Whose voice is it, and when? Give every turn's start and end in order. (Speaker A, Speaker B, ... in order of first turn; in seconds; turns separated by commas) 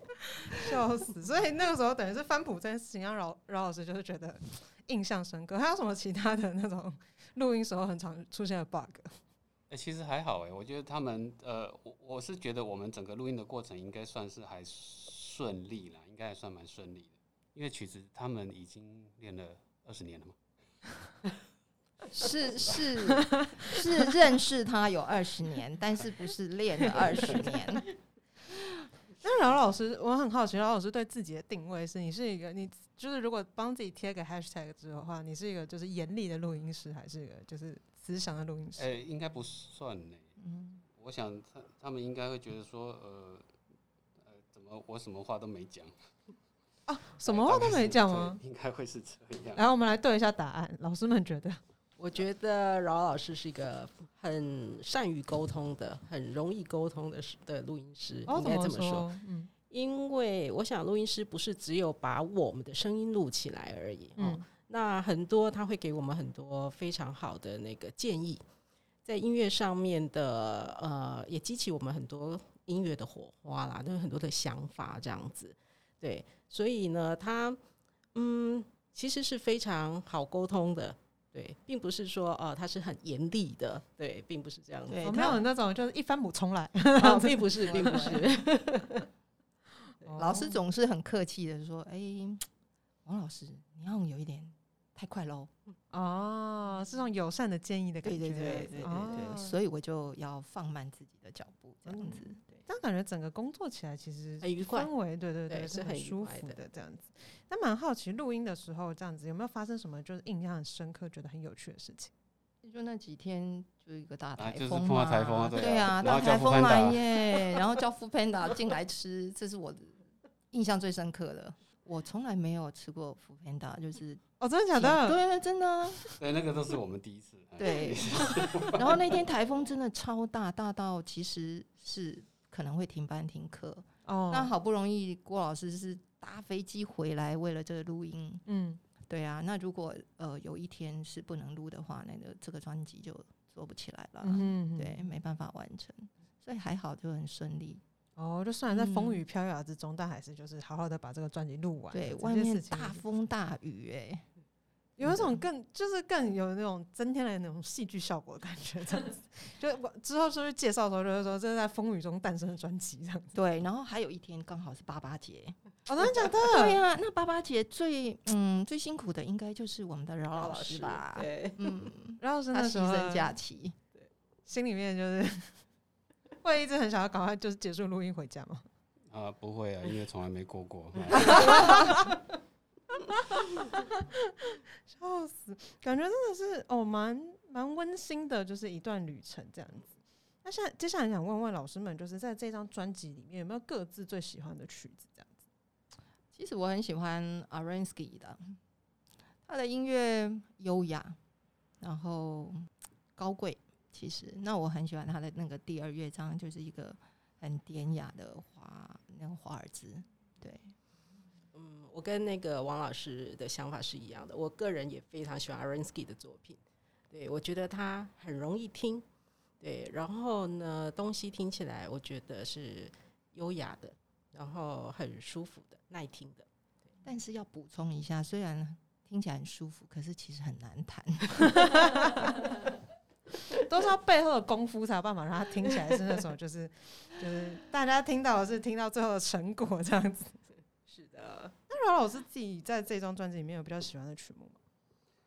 Speaker A: 0.5-9.1, Speaker B: 9.7-20.4, Speaker C: 22.1-27.8, Speaker A: 23.3-23.8, Speaker A: 26.8-27.5, Speaker A: 29.2-38.9, Speaker B: 38.8-40.3, Speaker C: 40.4-40.8, Speaker B: 40.9-43.5, Speaker B: 44.2-45.9, Speaker A: 46.9-48.4, Speaker B: 47.2-49.6, Speaker A: 49.5-51.6, Speaker D: 52.0-59.1, Speaker A: 58.3-59.5, Speaker D: 59.7-68.4, Speaker A: 64.2-64.5, Speaker D: 69.0-77.6, Speaker D: 78.2-85.4, Speaker C: 84.9-85.4, Speaker A: 85.0-88.2, Speaker D: 87.0-89.0, Speaker C: 87.7-88.2, Speaker A: 90.0-90.6, Speaker C: 90.2-92.5, Speaker C: 93.0-95.5, Speaker A: 95.9-99.6, Speaker C: 98.0-102.4, Speaker D: 98.4-99.2, Speaker A: 101.8-112.1, Speaker D: 104.4-104.9, Speaker D: 105.5-106.6, Speaker C: 112.6-126.1, Speaker B: 114.4-117.2, Speaker A: 124.4-125.2, Speaker B: 126.2-129.1, Speaker C: 127.6-138.4, Speaker A: 134.1-134.5, Speaker A: 138.5-138.8, Speaker C: 139.1-147.8, Speaker A: 144.2-145.0, Speaker A: 148.2-153.0, Speaker C: 148.7-149.2, Speaker C: 151.9-154.3, Speaker A: 155.0-163.3, Speaker C: 155.0-155.4, Speaker C: 163.3-173.8, Speaker A: 165.9-166.8, Speaker D: 170.4-171.7, Speaker A: 172.2-173.3, Speaker A: 174.5-175.6, Speaker A: 176.4-178.7, Speaker B: 179.1-181.7, Speaker A: 181.2-182.2, Speaker D: 181.3-181.8, Speaker A: 183.1-195.5, Speaker C: 196.3-198.6, Speaker C: 199.5-201.2, Speaker C: 201.8-210.7, Speaker D: 211.5-216.6, Speaker D: 217.1-219.1, Speaker D: 219.6-226.5, Speaker C: 227.0-231.8, Speaker A: 231.6-232.3, Speaker A: 233.6-240.4, Speaker D: 240.9-241.6, Speaker A: 241.7-244.6